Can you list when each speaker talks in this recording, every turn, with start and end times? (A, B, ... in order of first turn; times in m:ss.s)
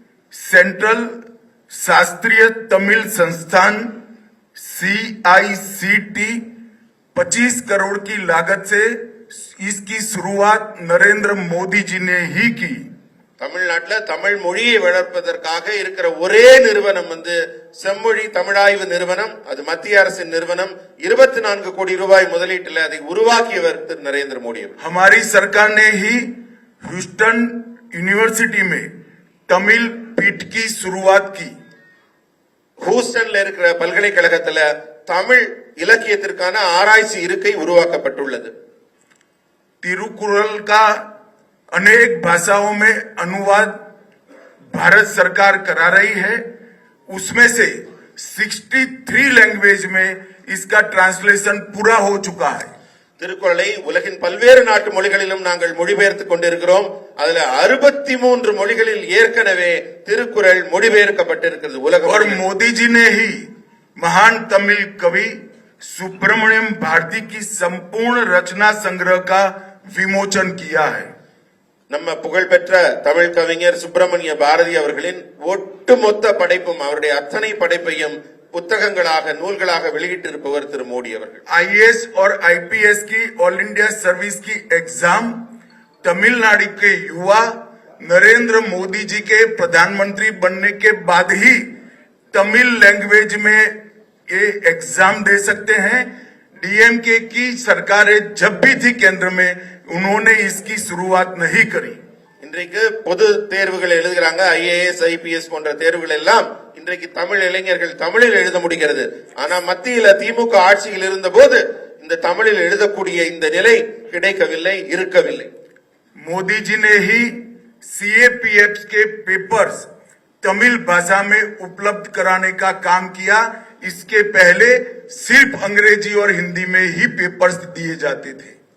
0:00.3-0:01.1 A
0:01.7-0:03.9 A
0:04.6-0:06.4 A
0:07.1-0:12.8 A
0:13.4-0:24.7 B
0:24.8-0:26.3 A
0:26.8-0:28.9 A
0:29.5-0:31.5 A
0:32.8-0:38.5 B
0:39.8-0:41.0 A
0:41.7-0:43.7 A
0:44.7-0:46.4 A
0:47.1-0:52.7 A
0:53.2-1:02.4 B
1:02.0-1:03.4 A
1:04.0-1:11.1 A
1:11.9-1:21.4 B
1:21.5-1:25.3 A
1:26.0-1:31.6 A
1:32.3-1:33.7 A
1:34.3-1:36.1 A
1:36.6-1:42.0 A
1:42.4-1:55.5 B
1:56.2-1:59.9 A
2:00.4-2:08.5 A